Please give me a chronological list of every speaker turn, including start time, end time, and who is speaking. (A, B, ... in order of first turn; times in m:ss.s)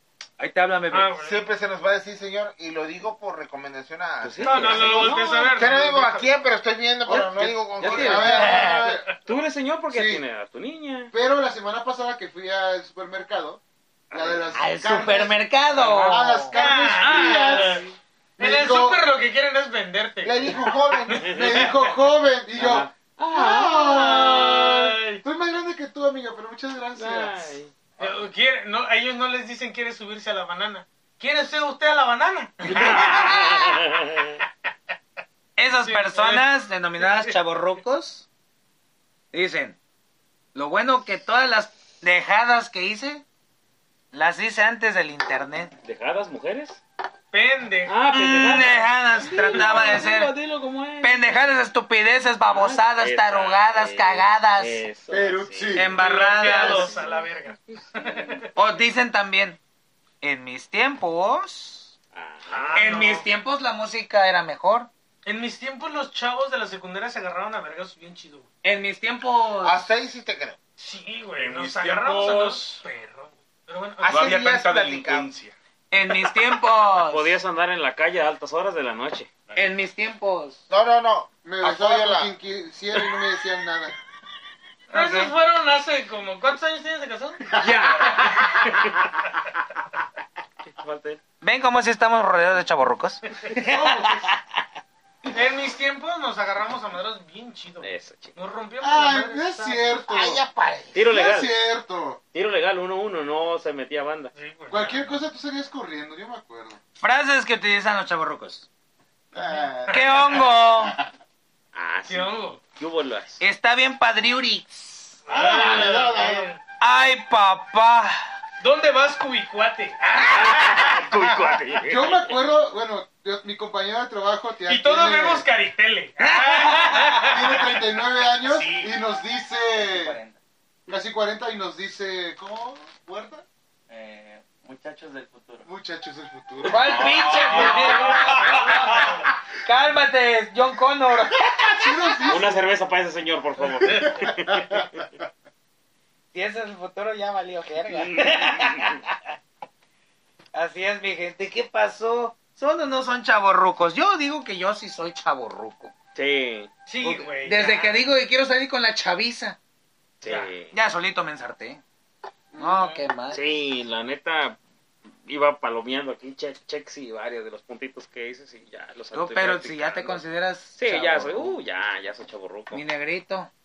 0:00.4-0:01.1 A
0:00.9-0:01.4 B
0:01.2-0:08.8 C
0:04.2-0:05.6 D
0:04.4-0:06.4 B
0:07.1-0:09.1 E
0:07.8-0:08.4 F
0:07.8-0:08.5 D
0:08.5-0:09.0 B
0:09.2-0:11.1 D
0:09.9-0:10.2 E
0:11.1-0:17.8 E
0:14.1-0:14.6 D
0:14.5-0:16.6 A
0:15.8-0:16.2 D
0:16.5-0:17.8 B
0:17.0-0:17.9 D
0:18.4-0:19.0 E
0:18.4-0:20.6 B
0:20.2-0:21.7 C
0:21.1-0:21.7 B
0:21.2-0:24.6 E
0:22.6-0:24.9 D
0:23.9-0:25.2 B
0:25.2-0:28.1 E
0:27.0-0:27.7 D
0:28.0-0:33.7 B
0:32.7-0:34.4 D
0:32.8-0:33.8 A
0:35.6-0:38.2 A
0:35.8-0:36.4 B
0:37.0-0:37.4 B
0:39.3-0:39.8 A
0:40.6-0:43.2 A
0:44.1-0:45.8 A
0:45.8-0:46.8 D
0:47.3-0:48.0 B
0:47.9-0:51.5 D
0:48.1-0:50.4 A
0:49.5-0:50.0 B
0:51.0-0:54.8 A
0:52.5-0:58.5 D
0:55.1-0:56.0 E
0:55.7-0:57.0 A
0:56.0-0:58.5 B
0:58.6-0:59.6 A
1:00.2-1:01.9 A
1:02.1-1:03.1 D
1:02.5-1:03.3 B
1:02.8-1:04.9 A
1:05.2-1:08.5 B
1:08.6-1:09.9 A
1:09.6-1:10.6 C
1:10.8-1:14.3 B
1:11.4-1:12.8 G
1:14.0-1:15.3 C
1:14.1-1:15.6 G
1:15.9-1:17.4 A
1:17.1-1:19.3 D
1:19.6-1:20.6 A
1:20.7-1:22.3 C
1:21.4-1:24.0 E
1:24.9-1:27.5 B
1:24.9-1:25.3 A
1:27.6-1:28.9 D
1:28.2-1:28.6 B
1:30.8-1:31.2 D
1:31.4-1:34.4 A
1:33.6-1:34.0 B
1:35.3-1:40.0 B
1:37.8-1:38.4 D
1:38.8-1:40.4 E
1:40.0-1:41.0 C
1:40.9-1:41.6 D
1:41.0-1:42.2 E
1:42.3-1:44.3 D
1:44.3-1:44.9 B
1:44.7-1:46.8 E
1:47.0-1:48.7 A
1:49.3-1:50.4 E
1:49.4-1:49.7 C
1:49.9-1:50.4 B
1:49.9-1:51.0 A
1:51.7-1:53.4 D
1:52.1-1:52.6 B
1:53.4-1:55.2 A
1:55.3-1:56.6 B
1:55.3-1:56.5 E
1:56.8-1:58.3 A
1:58.6-2:00.3 B
2:00.2-2:00.7 A
2:00.2-2:02.4 D
2:01.8-2:05.5 E
2:04.7-2:07.8 B
2:06.2-2:07.2 A
2:07.2-2:10.2 E
2:08.4-2:09.0 G
2:09.8-2:10.4 F
2:10.9-2:13.4 E
2:13.9-2:15.7 F
2:15.6-2:17.2 E
2:16.6-2:22.3 A
2:16.9-2:18.0 G
2:16.9-2:18.8 D
2:18.8-2:19.2 B
2:21.6-2:22.6 E
2:22.3-2:25.0 D
2:23.8-2:24.8 E
2:23.9-2:24.1 B
2:26.3-2:29.2 A
2:28.0-2:29.0 D
2:30.5-2:35.9 A
2:36.2-2:36.7 D
2:36.9-2:38.0 B
2:37.0-2:39.6 A
2:40.2-2:40.8 D
2:40.2-2:40.5 B
2:40.7-2:41.8 A
2:42.5-2:43.1 E
2:42.6-2:43.6 A
2:43.3-2:50.2 D
2:49.1-2:51.6 A
2:50.8-2:52.8 D
2:52.7-2:53.5 A